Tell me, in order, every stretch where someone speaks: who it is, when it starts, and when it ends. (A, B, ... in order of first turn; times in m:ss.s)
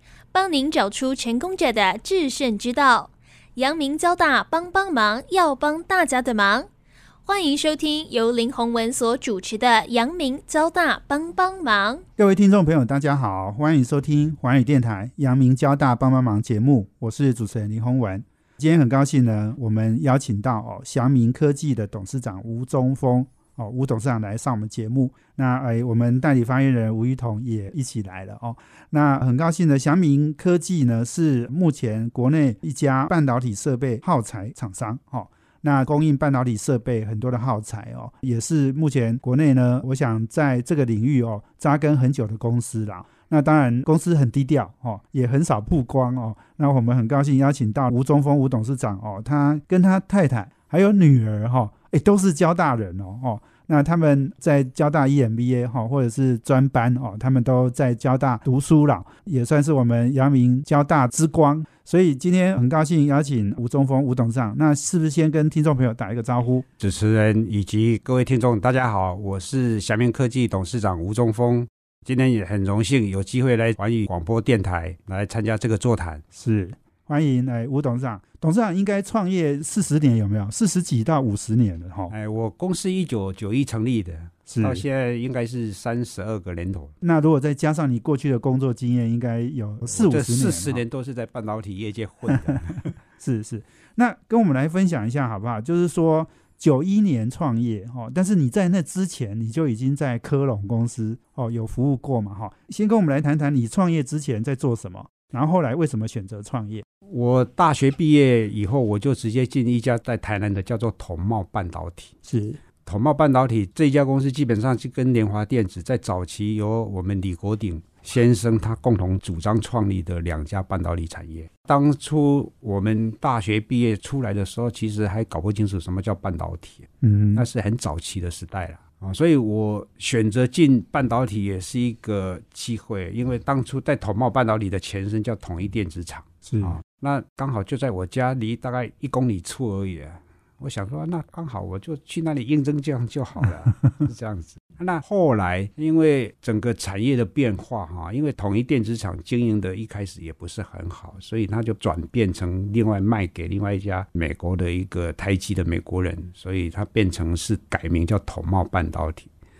0:00.3-0:06.7 A
0:07.2-0:12.0 A
0:12.2-1:06.6 B
1:06.8-1:16.2 C
1:16.3-1:22.1 B
1:22.1-1:26.9 C
1:24.5-1:24.8 B
1:27.0-1:30.8 B
1:29.9-1:32.9 C
1:32.3-1:46.8 B
1:47.1-1:52.1 C
1:52.2-1:52.6 B
1:52.8-2:39.3 C
2:07.0-2:07.5 B
2:16.4-2:16.8 B